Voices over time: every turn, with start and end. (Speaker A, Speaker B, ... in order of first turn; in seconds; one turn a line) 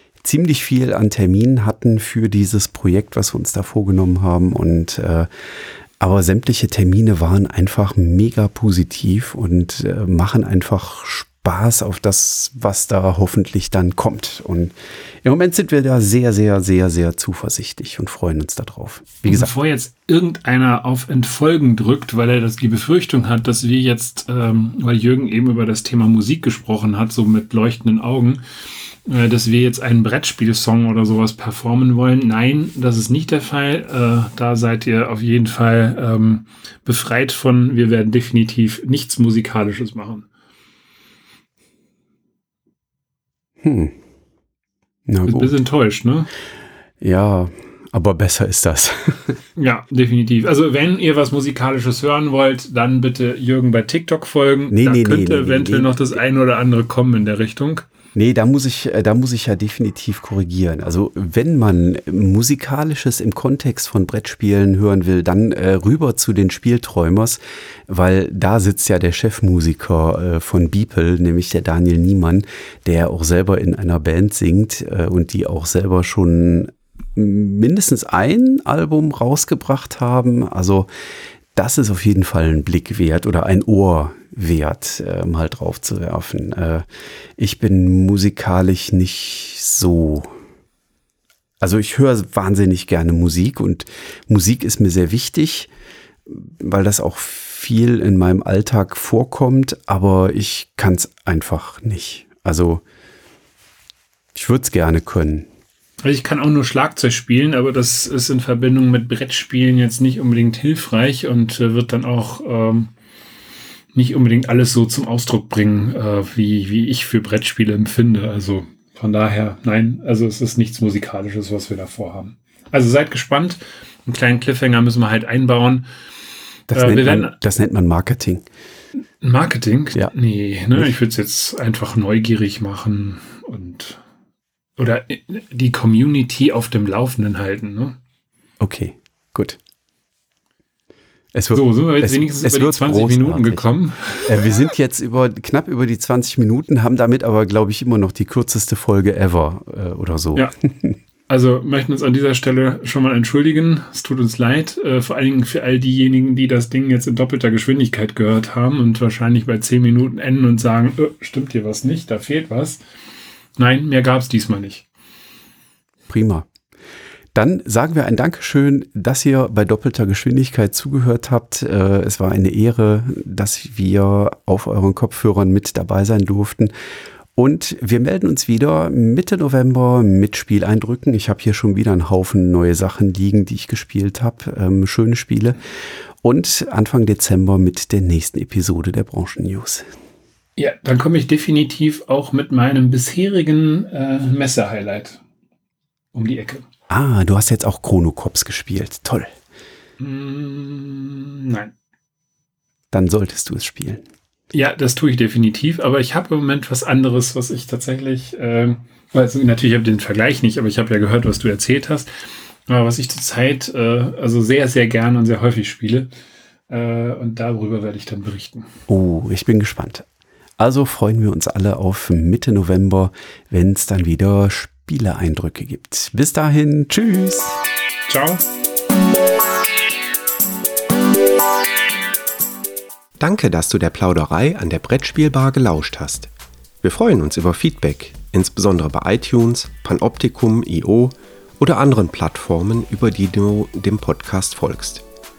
Speaker A: 0.2-5.3
Speaker A: 6.0-14.7
Speaker A: 15.2-19.5
Speaker B: 19.3-28.4
Speaker B: 29.1-40.3
Speaker A: 43.6-43.9
Speaker A: 45.1-45.5
Speaker B: 45.3-46.3
Speaker A: 47.0-49.4
Speaker B: 49.6-57.9
Speaker A: 54.7-56.1
Speaker A: 58.1-80.9
Speaker A: 81.6-86.8
Speaker A: 87.4-90.3
Speaker A: 91.6-95.7
Speaker A: 96.3-102.8
Speaker A: 104.3-105.5
Speaker B: 106.0-112.9
Speaker B: 113.9-125.9
Speaker A: 126.7-128.5
Speaker B: 126.7-127.3
Speaker B: 129.2-134.0
Speaker B: 134.8-138.0
Speaker A: 138.6-139.6
Speaker A: 141.3-143.7
Speaker B: 141.5-144.5
Speaker A: 144.2-151.0
Speaker B: 151.3-162.8
Speaker B: 163.6-164.8
Speaker A: 166.1-166.5
Speaker A: 167.3-176.7
Speaker A: 177.4-185.6
Speaker A: 186.2-189.9
Speaker B: 190.6-195.2
Speaker B: 196.1-196.7
Speaker A: 196.9-199.3
Speaker B: 200.0-201.7
Speaker A: 202.9-204.0
Speaker B: 204.5-212.1
Speaker B: 212.7-216.1
Speaker B: 216.7-218.7
Speaker A: 218.9-220.1
Speaker A: 220.6-227.6
Speaker B: 228.1-228.4
Speaker C: 233.2-236.3
Speaker C: 236.8-245.1